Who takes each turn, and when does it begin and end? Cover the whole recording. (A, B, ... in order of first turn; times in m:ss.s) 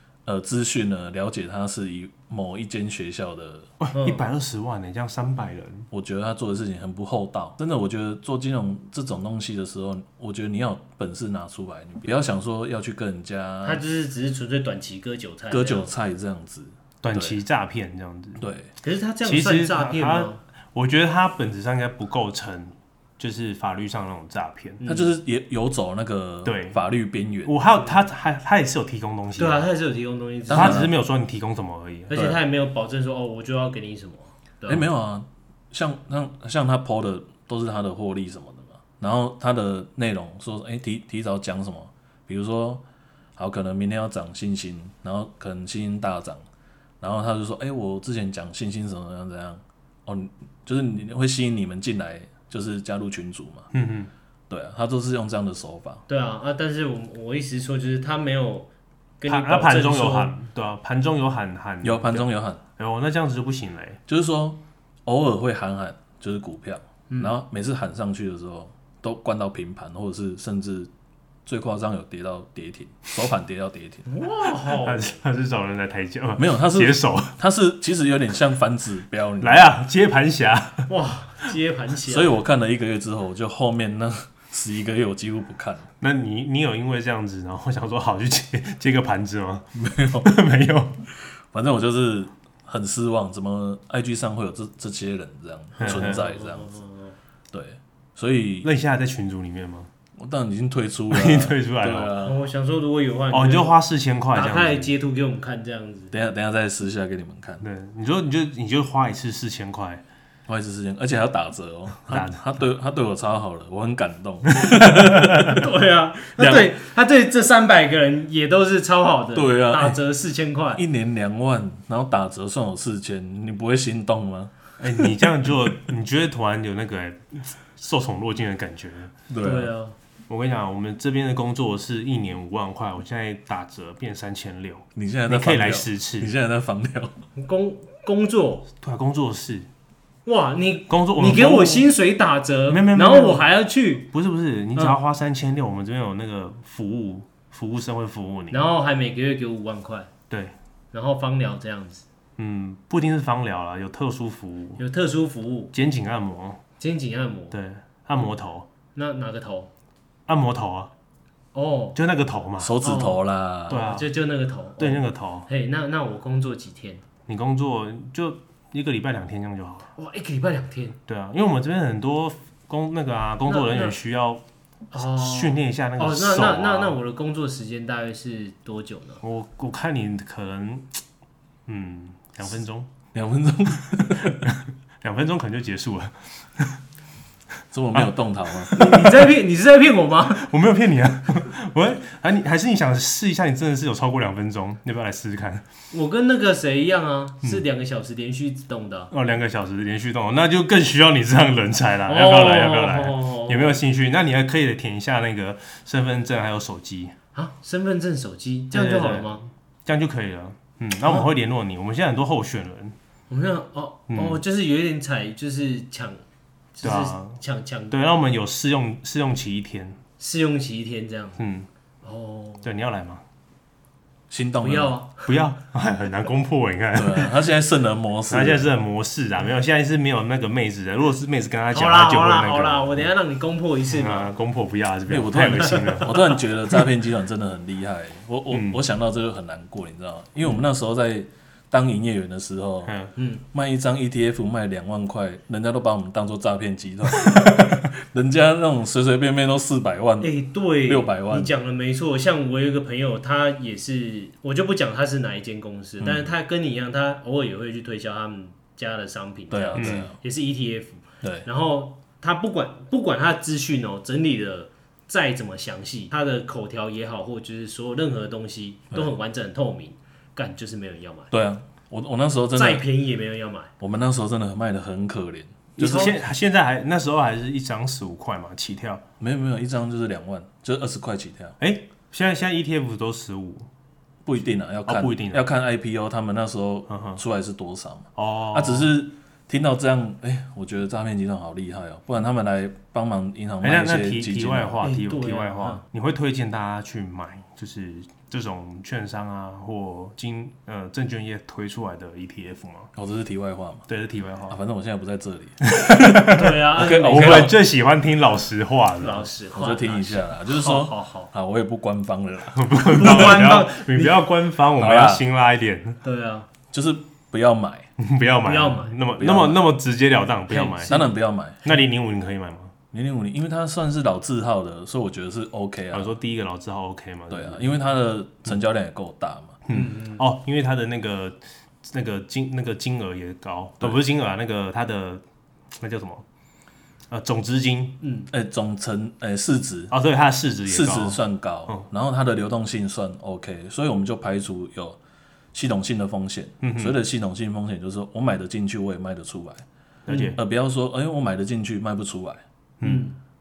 0:00.3-0:03.7 A
0:03.8-0:05.9 B
0:03.9-0:04.2 C
0:05.9-0:13.8 A
0:13.6-0:15.9 C
0:15.5-0:17.4 A
0:17.0-0:18.4 B
0:18.4-0:18.7 A
0:18.8-0:20.4 C
0:19.2-0:24.8 B
0:24.8-0:25.1 C
0:24.8-0:27.6 A
0:26.4-0:26.8 B
0:27.4-0:29.7 B
0:29.4-0:30.9 C
0:30.5-0:30.9 A
0:30.5-0:32.1 B
0:32.1-0:34.9 C
0:32.1-0:32.4 A
0:34.7-0:42.8 A
0:43.4-0:46.4 A
0:47.0-0:53.7 A
0:53.7-0:54.1 B
0:54.5-0:56.0 A
0:56.1-0:58.7 C
0:59.2-1:00.3 C
0:59.3-1:04.0 B
1:01.8-1:02.6 A
1:04.1-1:10.9 A
1:11.5-1:14.1 A
1:14.1-1:15.2 C
1:14.7-1:17.4 B
1:16.4-1:19.7 A
1:19.4-1:20.9 B
1:20.9-1:22.3 C
1:22.1-1:25.9 A
1:26.0-1:29.7 B
1:29.8-1:30.3 A
1:30.2-1:31.0 B
1:31.5-1:36.8 A
1:35.8-1:37.2 C
1:35.8-1:36.2 B
1:37.5-1:38.7 A
1:38.6-1:39.9 B
1:40.2-1:42.4 A
1:41.1-1:42.2 B
1:42.2-1:43.8 C
1:43.3-1:44.9 B
1:44.3-1:46.1 C
1:46.1-1:47.6 A
1:47.6-1:50.0 B
1:50.5-1:55.7 A
1:52.1-1:52.5 B
1:54.5-1:55.5 B
1:55.4-2:00.8 C
1:56.4-1:56.7 A
1:59.3-2:00.0 A
2:00.8-2:05.2 A
2:04.8-2:09.1 B
2:09.3-2:09.7 A
2:09.4-2:10.0 C
2:10.3-2:16.3 B
2:15.0-2:17.1 A
2:17.4-2:18.7 C
2:18.8-2:19.7 B
2:20.3-2:24.1 C
2:20.9-2:21.9 B
2:22.7-2:23.5 B
2:24.1-2:28.6 B
2:28.5-2:30.1 C
2:30.9-2:32.0 C
2:32.4-2:34.8 B
2:34.8-2:35.7 C
2:35.7-2:36.6 B
2:36.8-2:37.6 C
2:37.5-2:38.7 B
2:38.9-2:39.7 C
2:40.3-2:40.9 B
2:41.5-2:42.0 C
2:42.0-2:42.7 B
2:42.6-2:43.9 A
2:42.8-2:47.0 C
2:43.7-2:44.1 B
2:44.8-2:45.5 B
2:47.3-2:49.9 B
2:50.0-2:51.0 C
2:51.1-2:54.4 B
2:53.5-2:54.0 C
2:54.9-2:59.2 C
2:55.0-2:57.0 B
2:59.2-3:01.0 B
3:01.7-3:02.9 B
3:03.1-3:04.4 A
3:03.9-3:06.8 B
3:07.7-3:08.8 A
3:08.0-3:09.2 B
3:08.8-3:10.5 C
3:10.4-3:15.6 B
3:15.9-3:19.1 C
3:19.1-3:27.1 B
3:22.1-3:23.8 C
3:27.4-3:29.4 C
3:28.7-3:33.0 B
3:33.3-3:36.2 C
3:34.1-3:34.4 B
3:36.8-3:38.0 C
3:36.8-3:40.0 B
3:40.2-3:41.4 C
3:41.4-3:41.7 B
3:42.0-3:42.7 C
3:42.6-3:43.2 B
3:44.3-3:45.0 A
3:44.6-3:45.3 C
3:45.2-3:47.4 B
3:46.9-3:48.7 A
3:48.3-3:53.1 B
3:51.7-3:54.3 C
3:53.9-3:56.9 B
3:55.1-4:03.0 A
3:58.5-3:58.8 B
4:02.9-4:03.1 B
4:03.2-4:03.4 C
4:03.5-4:10.3 A
4:07.2-4:07.7 B
4:10.2-4:31.3 C
4:10.8-4:11.5 A
4:16.0-4:16.3 A
4:19.5-4:20.2 A
4:19.8-4:20.1 B
4:21.2-4:21.5 A
4:31.3-4:32.8 A
4:32.6-4:33.7 C
4:33.8-4:36.2 A
4:35.8-4:36.2 C
4:35.8-4:39.0 B
4:39.2-4:41.6 A
4:41.6-4:43.7 B
4:44.2-4:54.8 A
4:44.9-4:45.5 B
4:46.9-4:47.2 B
4:48.2-4:48.9 B
4:53.6-5:02.9 B
4:54.8-4:55.8 C
5:03.0-5:03.9 A
5:03.9-5:04.6 B
5:04.5-5:07.6 A
5:05.6-5:09.3 B
5:06.3-5:07.6 C
5:09.0-5:11.3 C
5:09.5-5:13.4 A
5:12.5-5:16.0 B
5:12.9-5:14.2 C
5:14.8-5:15.2 A
5:16.0-5:16.5 C
5:16.7-5:17.9 A
5:18.0-5:21.0 B
5:18.4-5:18.9 C
5:19.2-5:19.7 A
5:20.5-5:21.6 A
5:20.5-5:21.1 C
5:21.6-5:22.7 B
5:22.9-5:26.2 A
5:25.9-5:27.7 B
5:27.3-5:29.6 A
5:29.7-5:36.2 B
5:29.7-5:30.2 C
5:37.1-5:38.0 B
5:38.0-5:38.3 C
5:38.3-5:39.9 A
5:39.9-5:41.9 B
5:40.6-5:45.0 A
5:45.5-5:49.6 A
5:46.6-5:47.0 B
5:50.1-5:50.4 B
5:50.3-5:52.4 A
5:52.8-5:53.1 B
5:52.8-5:53.2 C